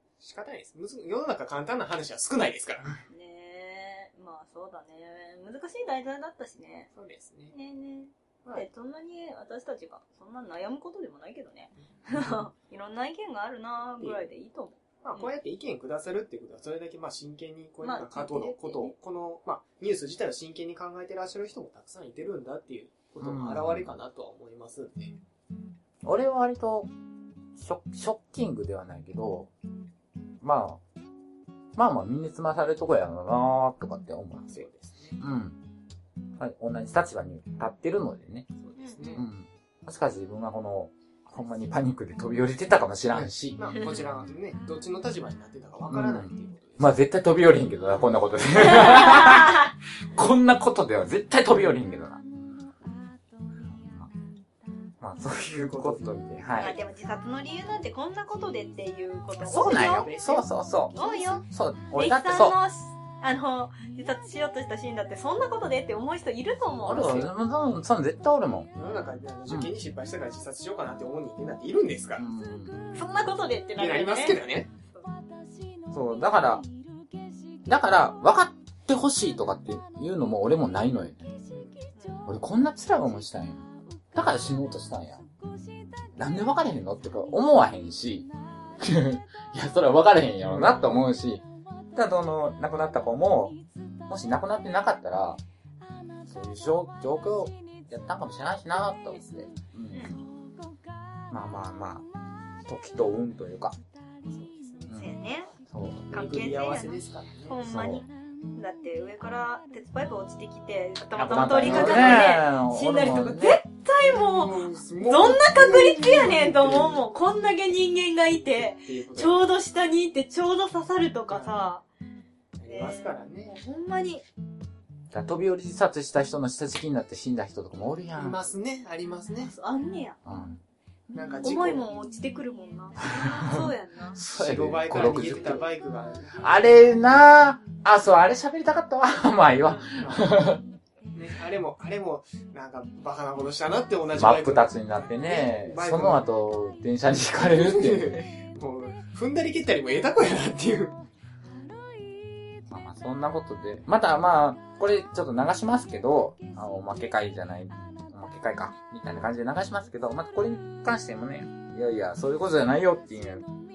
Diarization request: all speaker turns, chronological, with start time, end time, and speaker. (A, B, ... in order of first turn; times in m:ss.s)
0:00.2-0:03.0 A
0:03.1-0:06.9 B
0:06.9-0:07.5 A
0:07.5-0:15.3 B
0:12.1-0:12.4 A
0:14.0-0:14.3 A
0:15.0-0:25.1 A
0:17.8-0:18.9 B
0:23.2-0:24.0 C
0:26.0-0:26.9 C
0:27.6-0:29.5 C
0:30.4-0:30.8 C
0:31.8-0:34.6 C
0:34.5-0:35.2 A
0:35.2-0:35.6 C
0:36.4-0:38.5 C
0:38.6-0:39.2 A
0:38.8-0:39.2 B
0:39.2-0:43.6 C
0:43.1-0:47.0 A
0:45.9-0:52.2 C
0:48.8-0:49.5 B
0:53.6-0:54.1 C
0:55.0-0:56.8 C
0:55.4-0:56.1 A
0:56.6-1:00.1 B
0:59.4-1:02.6 C
0:59.5-1:01.4 A
1:00.9-1:07.3 B
1:06.8-1:08.7 C
1:08.8-1:12.3 A
1:12.2-1:12.8 C
1:12.9-1:14.4 B
1:13.8-1:14.7 A
1:15.9-1:16.7 C
1:17.7-1:21.3 C
1:21.5-1:21.8 A
1:22.0-1:22.2 B
1:22.3-1:25.2 C
1:26.2-1:33.6 C
1:30.4-1:31.1 A
1:34.1-1:35.4 C
1:36.2-1:40.2 C
1:39.9-1:40.2 B
1:41.3-1:42.1 C
1:42.6-1:43.8 C
1:44.3-1:44.9 A
1:44.9-1:45.1 C
1:44.9-1:45.5 B
1:45.6-1:46.1 C
1:46.1-1:47.6 A
1:46.1-2:01.8 B
1:47.7-1:48.0 C
1:51.2-1:53.6 C
1:51.5-1:52.3 A
1:54.0-1:57.0 A
1:58.8-1:59.4 A
2:01.3-2:01.6 A
2:02.6-2:03.6 A
2:02.7-2:04.2 B
2:05.1-2:08.5 C
2:08.2-2:09.5 A
2:09.4-2:10.3 B
2:10.2-2:10.6 C
2:11.1-2:11.9 A
2:11.4-2:14.2 B
2:13.2-2:15.7 C
2:14.3-2:16.8 A
2:16.4-2:20.6 C
2:19.9-2:20.4 A
2:21.1-2:26.2 A
2:24.2-2:28.2 C
2:27.5-2:31.0 A
2:32.7-2:43.5 C